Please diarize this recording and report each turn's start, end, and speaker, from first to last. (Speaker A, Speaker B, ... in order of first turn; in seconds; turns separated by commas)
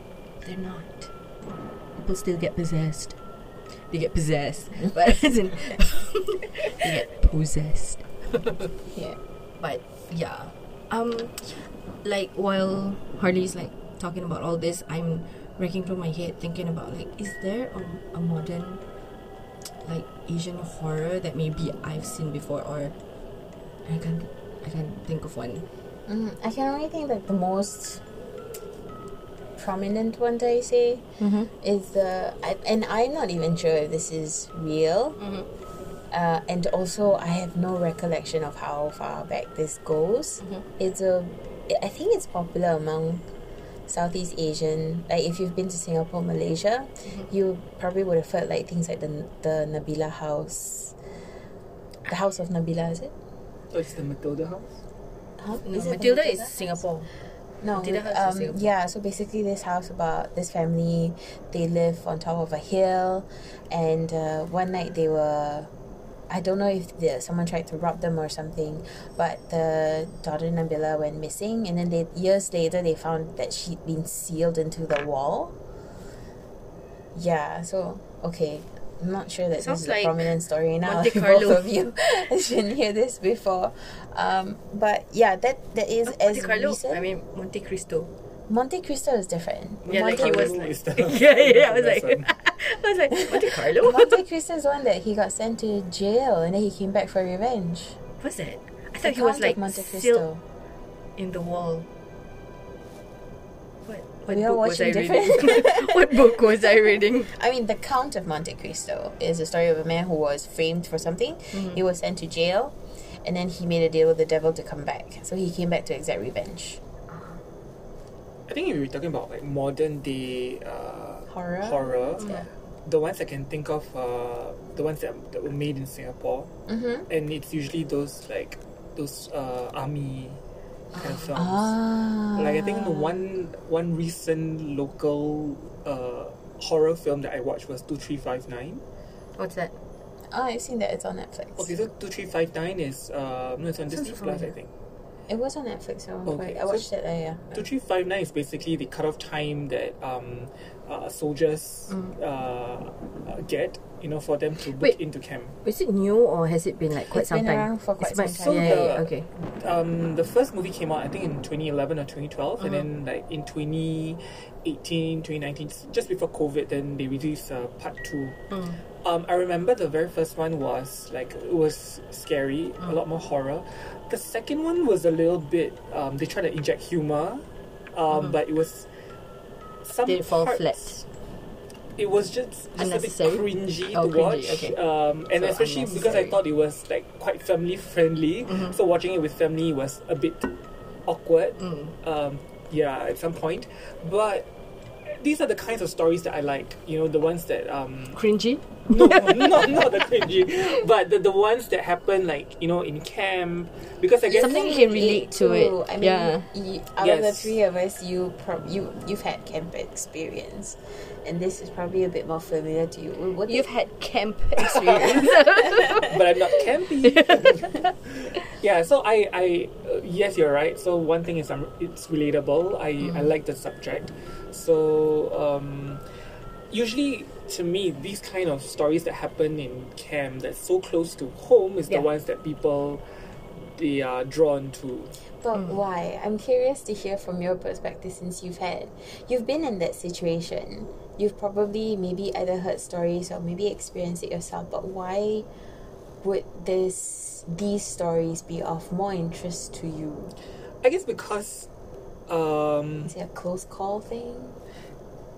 Speaker A: 0.4-1.1, Speaker A: 2.0-3.2, Speaker A: 3.9-8.7, Speaker A: 9.6-18.8, Speaker A: 19.8-22.9, Speaker A: 23.9-25.7, Speaker B: 26.1-28.1, Speaker B: 29.6-31.1, Speaker A: 31.2-31.5, Speaker B: 31.6-35.2, Speaker A: 35.2-35.5, Speaker B: 36.1-43.2, Speaker B: 43.9-51.0, Speaker B: 52.1-53.1, Speaker C: 53.7-54.8, Speaker B: 55.4-56.8, Speaker A: 55.6-57.1, Speaker B: 57.6-65.7, Speaker A: 57.8-58.7, Speaker B: 66.3-75.6, Speaker B: 77.1-87.0, Speaker A: 79.6-80.3, Speaker A: 80.8-81.7, Speaker A: 86.1-88.1, Speaker B: 88.5-90.7, Speaker C: 89.9-92.3, Speaker A: 89.9-94.2, Speaker B: 93.3-98.0, Speaker A: 98.2-100.3, Speaker B: 99.0-100.4, Speaker A: 101.2-101.9, Speaker A: 103.9-107.3, Speaker B: 104.3-116.8, Speaker A: 111.5-111.8, Speaker A: 117.1-117.4, Speaker C: 118.5-126.5, Speaker B: 121.3-122.3, Speaker A: 122.2-122.4, Speaker B: 126.7-127.1, Speaker C: 127.1-130.4, Speaker C: 130.9-131.8, Speaker B: 131.3-133.3, Speaker C: 132.3-138.8, Speaker A: 139.4-139.8, Speaker B: 140.3-141.8, Speaker C: 141.6-144.7, Speaker A: 143.9-144.5, Speaker B: 145.3-147.6, Speaker C: 146.3-146.9, Speaker C: 147.5-155.6, Speaker A: 151.9-152.1, Speaker A: 155.6-159.3, Speaker B: 157.1-159.0, Speaker C: 158.3-168.4, Speaker A: 162.6-162.9, Speaker A: 168.5-168.8, Speaker C: 169.0-178.9, Speaker C: 179.8-180.9, Speaker A: 180.1-181.1, Speaker C: 182.0-190.5, Speaker A: 182.8-184.8, Speaker A: 185.4-186.4, Speaker A: 188.5-188.8, Speaker C: 191.1-194.5, Speaker A: 191.6-191.9, Speaker C: 195.1-198.2, Speaker A: 198.1-200.1, Speaker C: 198.9-204.6, Speaker B: 204.3-213.7, Speaker A: 204.3-206.4, Speaker C: 207.0-207.6, Speaker A: 213.4-217.9, Speaker C: 214.6-226.0, Speaker A: 223.0-223.3, Speaker C: 226.7-233.0, Speaker C: 233.8-235.1, Speaker B: 235.4-245.5, Speaker B: 246.2-250.3, Speaker C: 250.8-251.7, Speaker C: 252.3-253.1, Speaker B: 253.0-254.6